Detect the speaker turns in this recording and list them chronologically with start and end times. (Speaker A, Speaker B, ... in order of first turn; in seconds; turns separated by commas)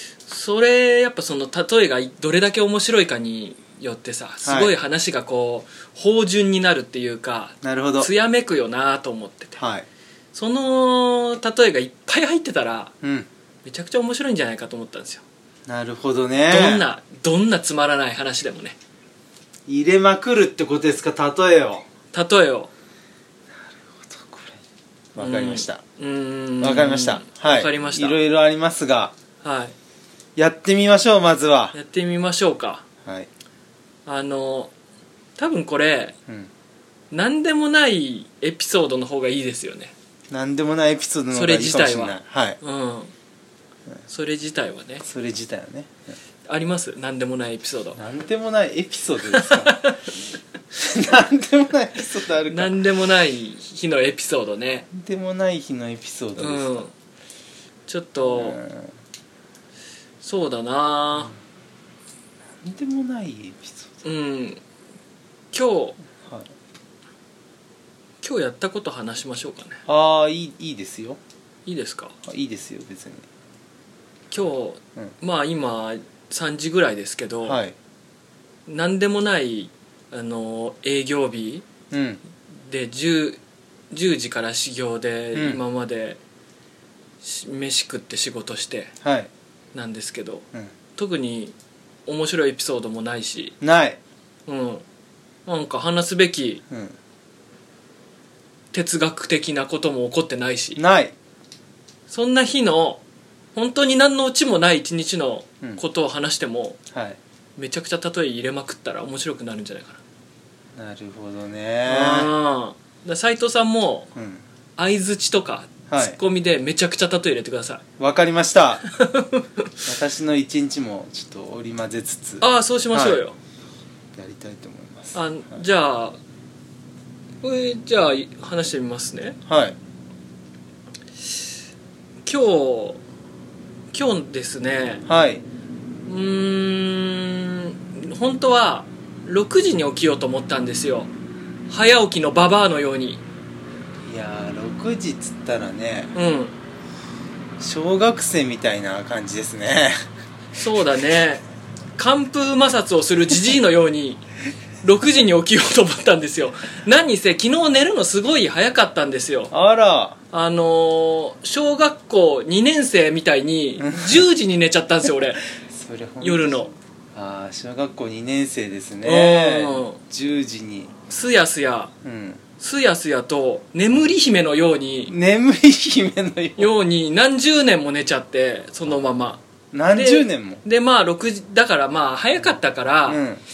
Speaker A: 0.3-9.6, Speaker B: 4.4-4.7, Speaker B: 7.6-8.1, Speaker B: 9.6-9.9, Speaker A: 10.3-12.9, Speaker B: 13.0-13.3, Speaker A: 13.7-15.2, Speaker B: 15.7-16.8, Speaker A: 16.5-18.8, Speaker B: 19.7-21.9, Speaker A: 22.1-22.7, Speaker B: 23.7-24.6, Speaker B: 25.1-25.8, Speaker A: 25.2-28.2, Speaker B: 26.6-29.1, Speaker A: 29.4-29.7, Speaker B: 30.4-31.8, Speaker A: 31.7-32.8, Speaker A: 34.1-34.7, Speaker A: 35.4-36.1, Speaker A: 37.1-39.9, Speaker B: 40.3-42.6, Speaker A: 41.3-43.1, Speaker A: 44.1-45.0, Speaker B: 45.0-46.2, Speaker A: 46.5-48.0, Speaker B: 48.0-49.8, Speaker A: 49.3-50.0, Speaker B: 50.7-52.8, Speaker A: 52.5-54.9, Speaker B: 54.9-56.9, Speaker A: 56.4-56.9, Speaker A: 57.9-58.6, Speaker B: 58.2-58.9, Speaker A: 60.2-61.3, Speaker B: 62.6-63.9, Speaker A: 64.0-64.6, Speaker A: 65.5-66.0, Speaker B: 66.2-66.5, Speaker A: 68.2-69.8, Speaker B: 69.9-71.2, Speaker A: 71.7-72.2, Speaker B: 72.2-73.2, Speaker A: 74.3-77.6, Speaker B: 77.4-77.8, Speaker A: 78.7-81.7, Speaker B: 81.9-82.2, Speaker A: 82.7-83.4, Speaker A: 83.9-86.2, Speaker B: 85.3-85.6, Speaker A: 87.2-88.9, Speaker B: 89.0-89.3, Speaker A: 89.7-91.5, Speaker A: 92.1-93.6, Speaker B: 93.6-94.0, Speaker A: 94.5-94.8, Speaker A: 95.5-96.6, Speaker B: 96.7-97.0, Speaker A: 98.7-100.8, Speaker B: 100.8-101.2, Speaker A: 102.1-103.0, Speaker A: 103.5-106.8, Speaker B: 106.9-107.2, Speaker A: 107.6-110.0, Speaker B: 110.8-112.3, Speaker A: 111.9-114.1, Speaker B: 114.2-114.4, Speaker A: 114.8-117.8, Speaker B: 115.9-116.2, Speaker B: 118.0-118.8, Speaker A: 118.9-119.9, Speaker B: 119.9-123.2, Speaker A: 122.4-123.4, Speaker B: 124.2-125.6, Speaker A: 125.1-126.2, Speaker A: 127.4-129.4, Speaker B: 129.5-129.8, Speaker A: 132.2-133.0, Speaker A: 133.9-135.1, Speaker B: 135.1-135.4, Speaker A: 136.1-141.1, Speaker A: 141.7-143.2, Speaker B: 144.1-146.1, Speaker A: 146.1-146.5, Speaker B: 147.6-150.1, Speaker A: 150.5-151.4, Speaker A: 152.0-154.2, Speaker A: 154.8-159.5, Speaker B: 159.5-160.2, Speaker A: 160.3-165.4, Speaker B: 163.8-164.2, Speaker B: 165.7-170.9, Speaker A: 166.2-166.7, Speaker A: 169.0-170.0, Speaker A: 171.1-171.9, Speaker B: 172.0-172.4, Speaker A: 172.6-175.1, Speaker B: 175.1-176.7, Speaker A: 176.6-179.4, Speaker B: 179.7-180.6, Speaker A: 179.9-183.2, Speaker B: 183.1-183.4